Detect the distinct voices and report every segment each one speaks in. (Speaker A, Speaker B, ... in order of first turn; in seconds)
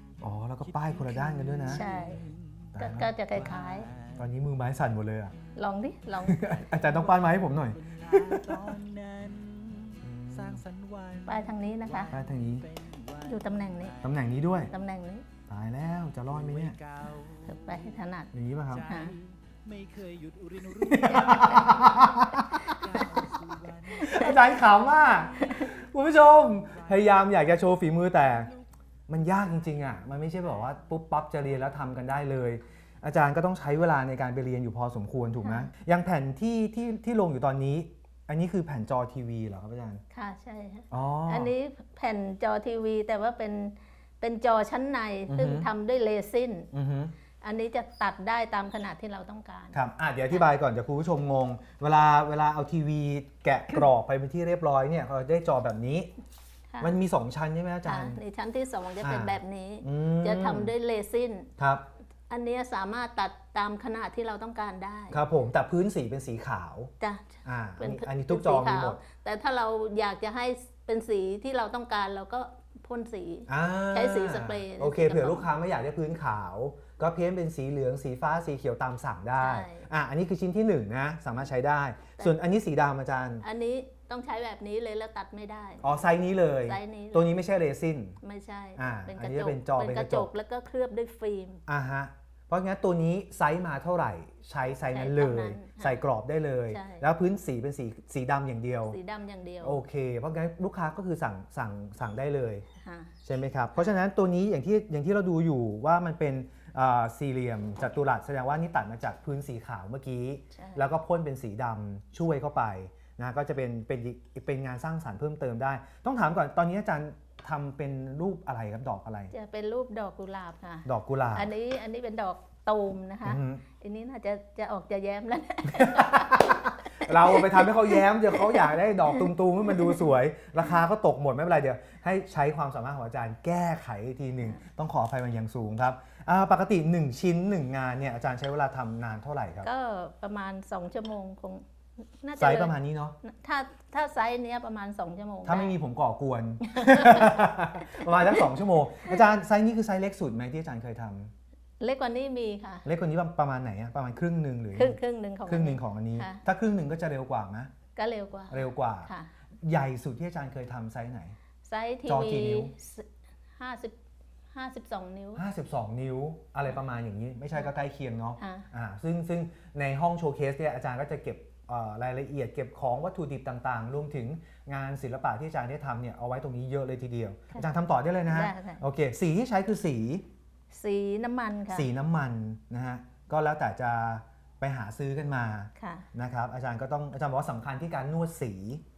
Speaker A: 0.2-1.8, 2.7-3.1, 4.2-5.3, 6.2-8.7, 10.0-10.6, 12.1-12.7, 14.0-14.7, 15.5-16.8, 18.3-18.9, 20.8-22.5, 23.9-28.5, 29.1-40.0, 40.9-41.5, 45.3-45.7, 46.7-47.1, 49.7-56.1, 56.8-58.2, 59.0-60.7, 61.6-61.8, 65.1-66.9, 67.4-69.0, 73.5-83.4, 85.8-88.2, 88.8-90.3, 91.7-99.0, 99.6-102.7, 103.2-119.3, 120.8-121.5, 123.2-123.6, 125.7-139.7, 142.4-143.2, 145.4-151.3, 152.8-157.7, 158.5-159.1, 159.6-161.3, 162.1-162.7, 165.3-180.2, 181.7-188.8
Speaker B: 0.6-2.8, 3.3-4.2, 6.5-14.1, 16.3-17.9, 18.7-24.7, 26.7-27.5, 28.3-28.6
Speaker C: 1.7-2.2, 2.8-3.9, 5.5-6.5, 11.2-12.1, 13.2-13.9, 14.7-15.2, 17.4-19.1, 21.0-21.7, 22.3-23.2, 24.0-24.4, 35.4-35.7, 40.1-46.7, 47.4-49.8, 57.9-61.5, 62.3-65.2, 67.0-75.5, 79.4-79.8, 83.4-85.8, 86.7-87.3, 88.2-91.6, 94.9-96.0, 96.7-97.0, 98.8-99.8, 102.8-103.1, 110.5-110.8, 119.3-130.0, 139.6-141.6, 142.2-145.7, 146.6-148.4, 151.8-152.8, 154.7-156.4, 157.9-159.3, 161.6-163.9, 164.5-165.4, 168.4-168.7, 178.3-178.8, 180.7-181.8, 185.8-186.1